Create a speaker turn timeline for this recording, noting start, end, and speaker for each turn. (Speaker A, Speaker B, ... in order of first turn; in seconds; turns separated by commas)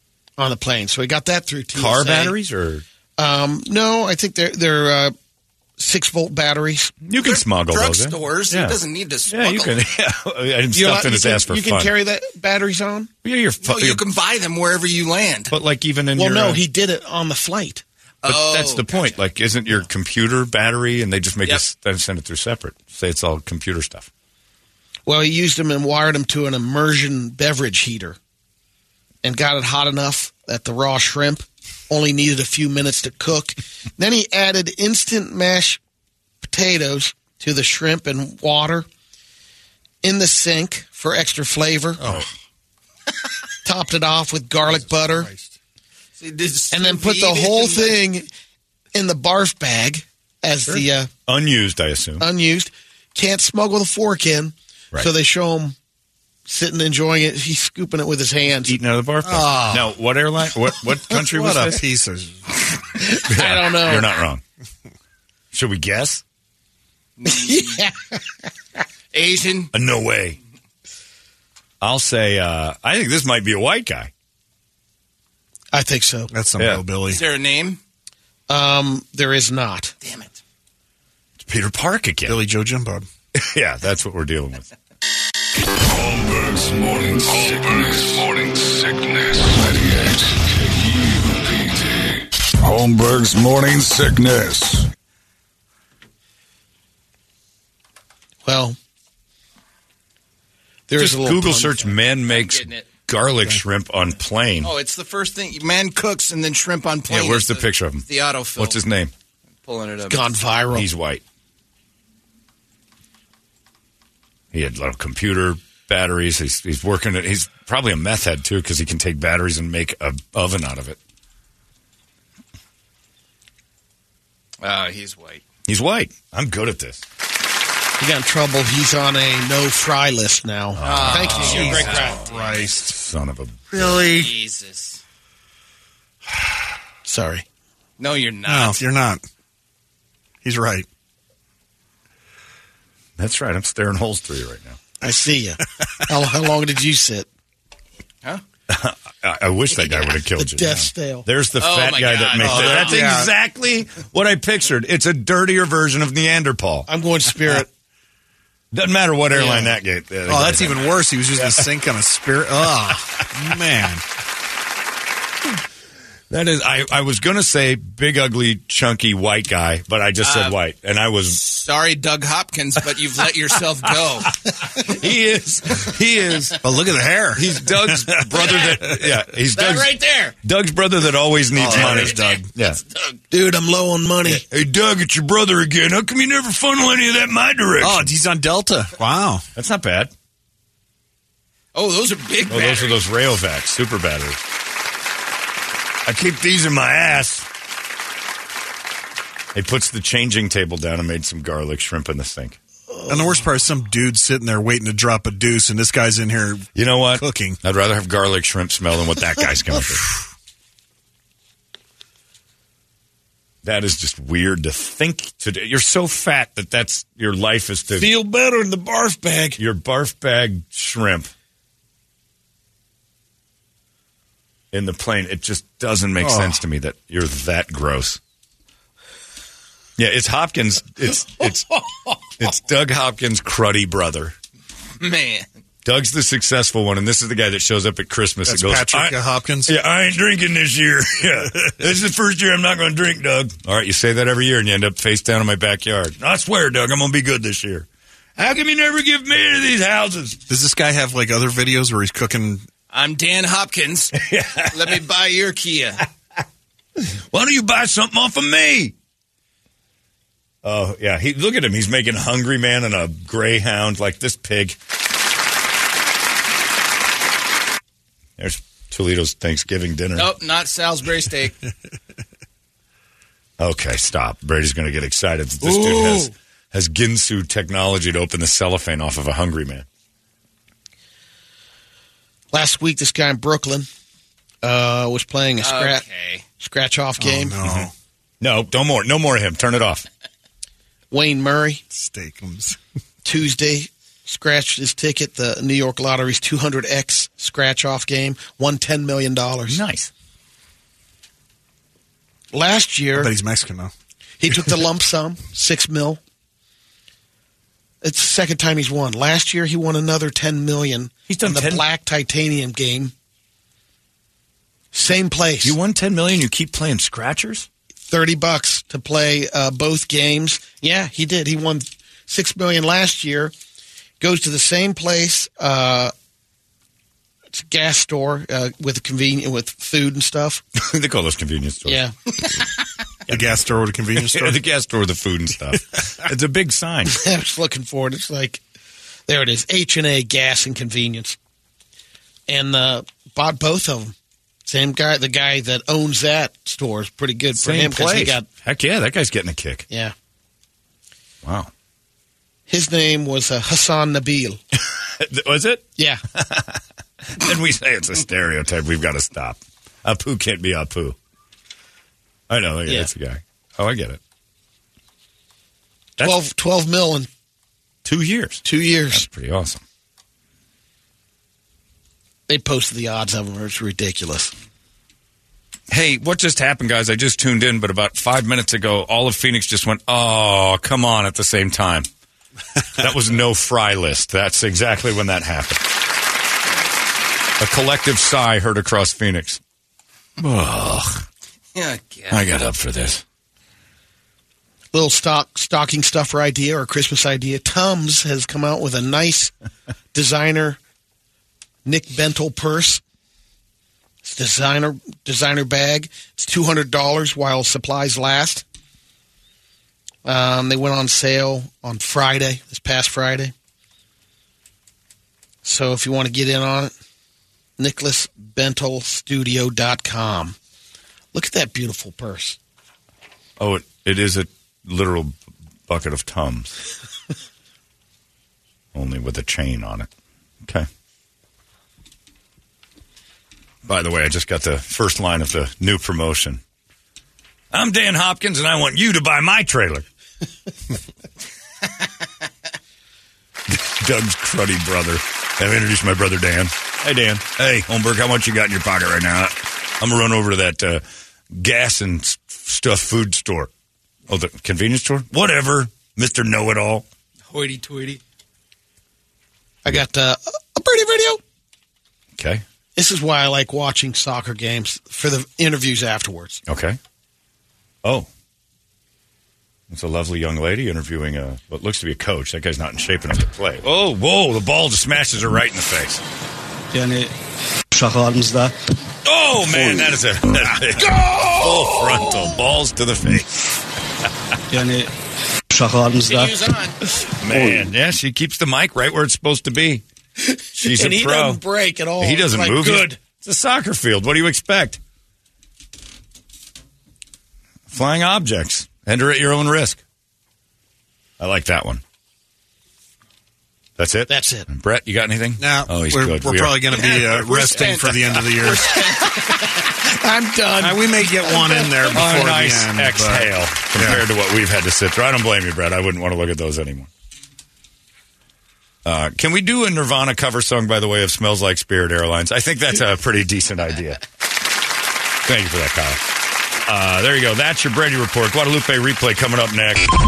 Speaker A: 0.4-2.4, Speaker B: 1.8-2.8, Speaker A: 3.2-5.1, Speaker A: 5.8-6.9, Speaker B: 7.0-11.9, Speaker C: 7.2-9.9, Speaker A: 10.7-13.1, Speaker B: 13.2-14.0, Speaker C: 13.6-15.5, Speaker B: 15.5-16.6, Speaker A: 16.2-17.8, Speaker C: 18.2-19.2, Speaker B: 18.2-24.1, Speaker A: 25.1-28.2, Speaker A: 29.2-35.8, Speaker A: 36.4-38.9, Speaker A: 40.0-42.1, Speaker D: 42.0-42.3, Speaker A: 43.6-45.3, Speaker D: 44.7-45.5, Speaker C: 46.2-48.0, Speaker A: 46.7-48.3, Speaker A: 48.9-51.1, Speaker B: 50.7-52.2, Speaker A: 52.2-55.8, Speaker A: 56.5-58.8, Speaker B: 58.6-61.8, Speaker D: 59.2-59.9, Speaker D: 61.1-62.5, Speaker A: 63.0-64.1, Speaker B: 63.2-64.4, Speaker B: 65.5-66.2, Speaker C: 67.2-67.8, Speaker A: 67.3-68.2, Speaker C: 69.1-69.7, Speaker B: 69.7-70.4, Speaker B: 71.8-74.1, Speaker A: 75.7-76.3, Speaker D: 76.3-77.2, Speaker B: 76.6-76.8, Speaker C: 77.1-77.8, Speaker A: 78.5-79.9, Speaker C: 80.0-80.4, Speaker B: 81.4-82.4, Speaker D: 82.3-83.1, Speaker B: 83.4-84.7, Speaker E: 85.7-94.9, Speaker A: 98.5-98.8, Speaker A: 100.9-101.9, Speaker B: 101.0-104.7, Speaker C: 102.2-102.9, Speaker C: 104.6-108.8, Speaker B: 107.1-109.1, Speaker C: 109.7-110.3, Speaker A: 110.1-110.9, Speaker B: 110.7-111.2, Speaker B: 114.5-121.0, Speaker C: 124.6-125.4, Speaker B: 125.7-127.0, Speaker A: 128.0-132.2, Speaker B: 130.8-134.1, Speaker C: 130.8-132.7, Speaker D: 131.0-132.9, Speaker D: 133.7-134.3, Speaker C: 134.1-135.0, Speaker A: 137.1-137.4, Speaker C: 138.0-138.8, Speaker D: 138.5-139.2, Speaker D: 140.4-140.9, Speaker B: 143.2-144.8, Speaker A: 145.0-147.3, Speaker B: 148.7-156.9, Speaker C: 149.8-150.2, Speaker A: 150.3-151.3, Speaker C: 151.6-153.0, Speaker D: 152.4-153.3, Speaker A: 156.9-157.7, Speaker B: 158.7-161.7, Speaker A: 159.3-159.7, Speaker D: 160.3-164.0, Speaker B: 166.3-171.4, Speaker C: 170.2-170.6, Speaker C: 171.3-175.0, Speaker B: 174.8-176.6, Speaker D: 176.6-178.3, Speaker B: 177.3-182.8, Speaker C: 178.3-178.8, Speaker C: 179.5-180.4, Speaker D: 181.6-182.5, Speaker C: 181.7-183.2, Speaker A: 183.3-184.4, Speaker B: 184.3-188.1, Speaker D: 187.8-189.5, Speaker B: 189.6-190.1, Speaker C: 191.7-193.0, Speaker B: 192.5-194.4, Speaker B: 196.1-197.5, Speaker B: 199.6-202.6, Speaker A: 202.9-203.4, Speaker D: 203.1-207.6, Speaker B: 206.8-210.1, Speaker B: 213.6-218.1, Speaker A: 218.0-219.6, Speaker B: 219.6-221.3, Speaker B: 224.7-228.2, Speaker D: 226.2-226.6, Speaker B: 230.0-234.3, Speaker C: 235.0-235.5, Speaker B: 235.8-247.9, Speaker D: 238.5-239.7, Speaker B: 248.4-250.4, Speaker D: 250.5-252.7, Speaker C: 252.9-254.2, Speaker B: 254.2-255.0, Speaker C: 254.7-256.0, Speaker B: 257.0-258.9, Speaker B: 260.6-264.8, Speaker B: 268.4-270.3, Speaker C: 270.2-271.6, Speaker B: 273.6-279.9, Speaker A: 275.6-276.3, Speaker A: 282.5-283.9, Speaker A: 284.6-286.0, Speaker C: 285.6-286.4, Speaker A: 286.6-287.6, Speaker D: 287.2-287.9, Speaker B: 287.6-287.9, Speaker B: 288.4-290.1, Speaker A: 291.1-291.8, Speaker D: 291.9-292.8, Speaker A: 293.2-299.8, Speaker B: 299.7-300.1, Speaker A: 302.5-303.3, Speaker D: 303.2-303.9, Speaker A: 304.4-306.2, Speaker A: 308.0-313.1, Speaker B: 311.3-311.9, Speaker A: 314.9-315.8, Speaker B: 315.6-317.7, Speaker A: 318.1-323.5, Speaker A: 324.2-326.1, Speaker A: 327.5-330.6, Speaker B: 330.8-332.0, Speaker A: 331.9-332.1, Speaker D: 333.3-334.6, Speaker B: 334.2-337.2, Speaker A: 337.1-338.6, Speaker A: 339.3-341.4, Speaker A: 342.5-344.1, Speaker A: 344.7-348.5, Speaker B: 347.6-349.9, Speaker B: 351.4-351.7, Speaker A: 352.7-354.6, Speaker B: 355.2-361.2, Speaker B: 362.5-364.2, Speaker A: 362.9-363.1, Speaker A: 366.2-367.3, Speaker B: 368.1-369.8, Speaker A: 368.6-369.3, Speaker A: 372.5-374.6, Speaker B: 375.9-382.1, Speaker B: 383.0-385.8, Speaker B: 387.6-389.6, Speaker B: 390.4-391.2, Speaker C: 391.7-392.7, Speaker B: 392.3-393.2, Speaker A: 394.9-399.5, Speaker A: 400.1-400.8, Speaker A: 401.9-403.0, Speaker A: 404.2-408.6, Speaker A: 410.2-413.5, Speaker A: 415.6-416.9, Speaker A: 417.8-420.6, Speaker A: 421.3-422.6, Speaker B: 423.6-425.4, Speaker B: 425.9-426.8, Speaker B: 428.9-430.1, Speaker B: 433.9-436.6, Speaker B: 437.7-440.1, Speaker B: 443.7-451.0, Speaker B: 451.5-453.7, Speaker B: 454.3-457.1, Speaker C: 457.5-458.2, Speaker A: 459.9-461.4, Speaker B: 462.4-462.6, Speaker A: 463.0-466.6, Speaker B: 466.7-467.0, Speaker B: 469.9-476.2, Speaker F: 476.9-477.3, Speaker F: 477.9-478.8, Speaker B: 479.2-483.7, Speaker A: 481.0-482.4, Speaker F: 484.7-485.1, Speaker F: 485.7-486.6, Speaker C: 486.2-487.0, Speaker B: 487.4-490.0, Speaker A: 490.4-493.2, Speaker B: 490.8-491.6, Speaker B: 492.2-495.0, Speaker B: 497.9-500.0, Speaker B: 501.4-502.0, Speaker B: 504.0-507.4, Speaker A: 504.3-504.7, Speaker D: 505.6-509.0, Speaker C: 506.9-509.3, Speaker A: 508.9-512.1, Speaker D: 510.8-514.3, Speaker B: 512.1-517.1, Speaker B: 519.0-524.2, Speaker B: 525.5-526.2, Speaker B: 526.9-530.1